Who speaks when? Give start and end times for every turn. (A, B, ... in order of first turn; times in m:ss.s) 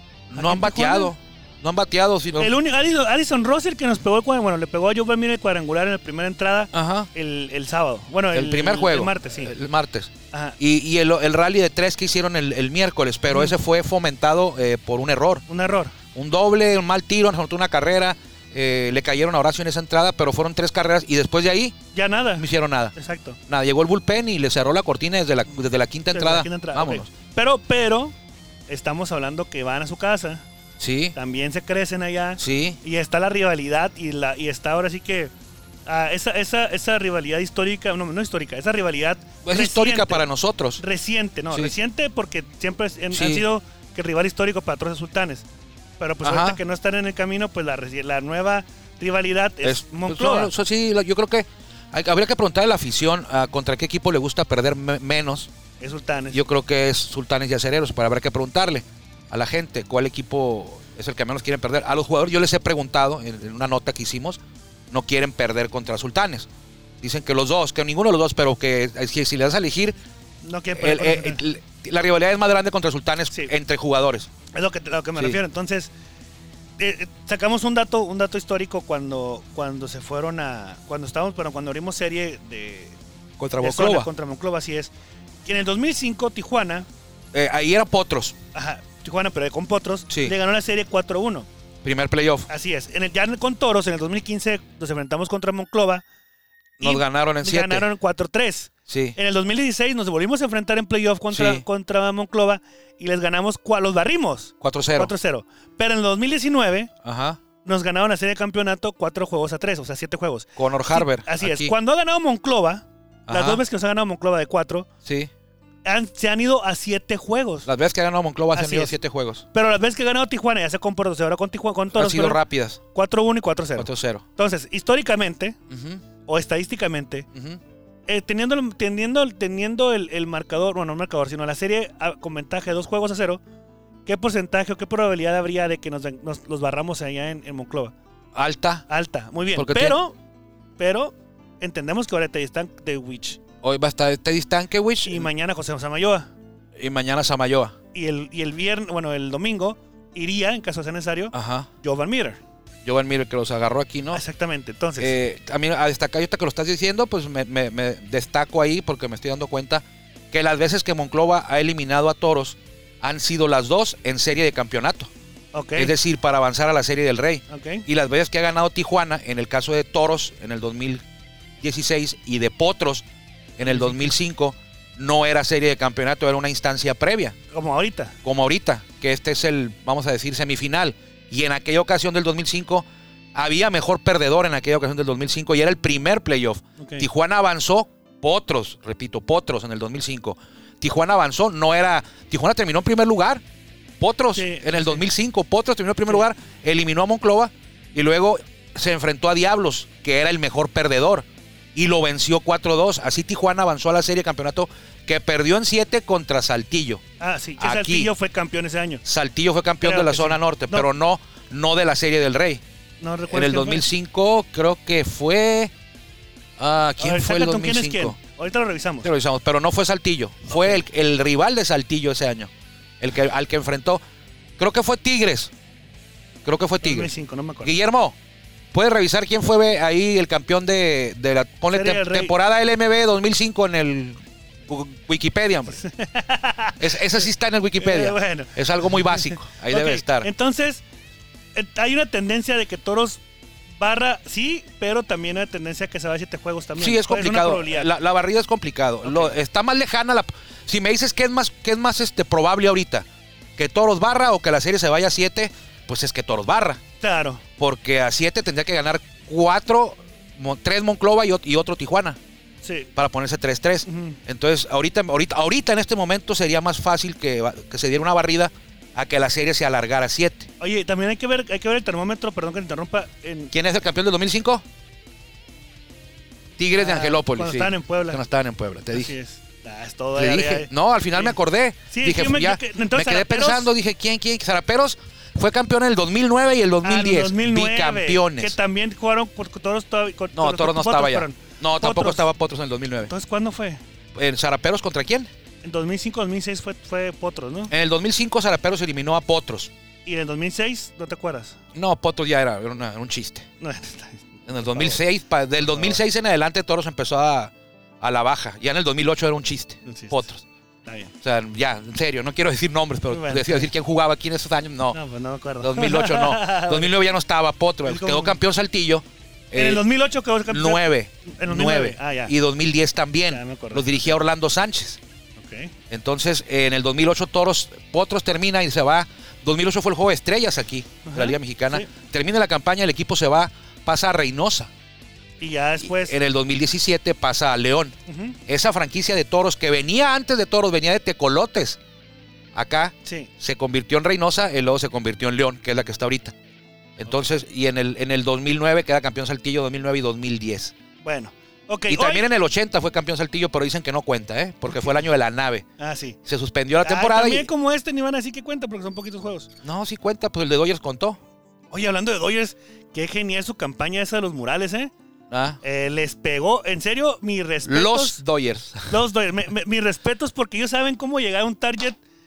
0:00.3-0:02.5 A
0:00.3-0:01.1 B
0:02.4-0:09.5 B
0:06.7-0:07.1 A
0:08.3-0:15.4 A
0:13.3-0:13.6 B
0:15.5-0:15.9 B
0:16.1-0:21.8 A
0:21.9-0:23.4 B
0:22.4-0:22.9 A
0:23.5-0:27.1 A
0:26.1-0:28.1 B
0:28.7-0:30.4 B
0:30.8-0:31.1 A
0:31.1-0:35.3 B
0:32.4-0:32.8 A
0:35.8-0:40.3 B
0:39.4-0:40.8 A
0:40.8-0:45.4 B
0:43.1-0:43.4 A
0:46.0-0:50.5 B
0:46.2-0:46.6 A
0:49.6-0:55.5 A
0:55.8-0:56.4 B
0:56.3-1:06.5 A
1:07.0-1:10.0 A
1:10.4-1:11.4 B
1:10.7-1:14.3 A
1:14.5-1:15.9 B
1:16.8-1:23.0 B
1:23.4-1:24.1 A
1:23.6-1:24.9 B
1:25.4-1:26.9 B
1:27.3-1:28.3 A
1:28.5-1:31.5 B
1:30.1-1:30.3 A
1:31.8-1:32.5 A
1:32.5-1:36.0 B
1:36.8-1:37.8 A
1:36.8-1:46.9 B
1:38.9-1:39.1 A
1:41.3-1:41.6 A
1:44.6-1:45.1 A
1:47.0-1:47.4 A
1:47.6-1:54.9 B
1:50.6-1:51.7 A
1:53.3-1:53.6 A
1:55.0-1:55.3 A
1:55.8-1:57.7 B
1:57.6-1:59.4 A
1:58.5-1:58.9 B
1:59.5-2:02.4 B
2:01.9-2:02.8 A
2:02.9-2:05.6 B
2:03.8-2:04.2 A
2:05.7-2:06.0 A
2:06.2-2:07.3 B
2:07.3-2:07.6 A
2:08.1-2:13.4 B
2:14.0-2:17.9 B
2:18.3-2:18.8 A
2:18.9-2:20.2 B
2:19.5-2:20.0 A
2:20.8-2:23.4 B
2:23.6-2:25.3 A
2:25.0-2:26.3 B
2:26.8-2:27.7 A
2:27.9-2:32.4 B
2:31.3-2:31.7 A
2:32.8-2:34.2 A
2:34.1-2:35.2 B
2:35.0-2:45.1 A
2:45.5-2:45.9 B
2:45.8-2:51.0 A
2:47.5-2:47.8 B
2:51.6-2:53.0 A
2:53.6-2:57.3 A
2:53.7-2:54.0 B
2:57.5-2:58.1 B
2:58.2-3:13.4 A
3:06.8-3:07.0 B
3:14.0-3:27.0 A
3:14.3-3:15.0 B
3:27.2-3:29.0 B
3:27.6-3:28.1 A
3:29.0-3:32.6 A
3:29.8-3:30.9 B
3:33.0-3:33.8 B
3:33.3-3:35.7 A
3:36.6-3:38.2 A
3:37.0-3:39.1 B
3:39.0-3:44.0 A
3:44.6-3:45.5 A
3:46.4-3:47.1 A
3:46.8-3:47.7 B
3:47.6-3:48.2 A
3:48.7-3:55.8 A
3:51.7-3:52.3 B
3:55.7-4:00.8 B
3:56.8-4:00.3 A
4:01.5-4:07.9 B
4:06.8-4:16.8 A
4:09.0-4:09.3 B
4:17.0-4:17.4 B
4:17.6-4:22.2 A
4:22.6-4:22.9 B
4:23.0-4:30.5 A
4:23.8-4:24.2 B
4:30.6-4:33.5 B
4:33.5-4:34.6 A
4:36.6-4:39.1 A
4:36.8-4:38.2 B
4:38.9-4:41.3 B
4:40.2-4:48.6 A
4:41.9-4:43.7 B
4:46.8-4:52.2 B
4:50.3-4:53.1 A
4:53.0-4:53.8 B
4:54.2-4:55.3 A
4:55.6-4:57.7 B
4:57.7-4:59.7 A
5:00.0-5:01.6 B
5:01.7-5:03.5 A
5:03.6-5:05.0 B
5:04.5-5:10.4 A
5:05.7-5:06.0 B
5:09.8-5:10.2 B
5:10.8-5:11.1 B
5:11.2-5:15.0 A
5:13.1-5:13.7 B
5:14.9-5:16.9 B
5:15.6-5:19.8 A
5:17.8-5:18.4 B
5:19.5-5:22.3 B
5:20.5-5:25.0 A
5:23.3-5:24.1 B
5:25.4-5:25.7 B
5:25.9-5:34.7 A
5:31.0-5:31.9 B
5:35.4-5:36.2 B
5:35.8-5:38.0 A
5:38.1-5:38.4 B
5:38.5-5:41.8 A
5:42.5-5:46.3 A
5:43.0-5:43.3 B
5:47.0-5:50.7 A
5:51.0-5:52.3 B
5:51.9-5:55.6 A
5:55.8-5:56.2 B
5:56.2-5:57.5 A
5:56.7-5:59.5 B
5:59.6-6:01.2 A
6:01.7-6:04.9 B
6:05.3-6:05.6 A
6:05.6-6:08.2 B
6:07.6-6:08.9 A
6:08.9-6:12.0 B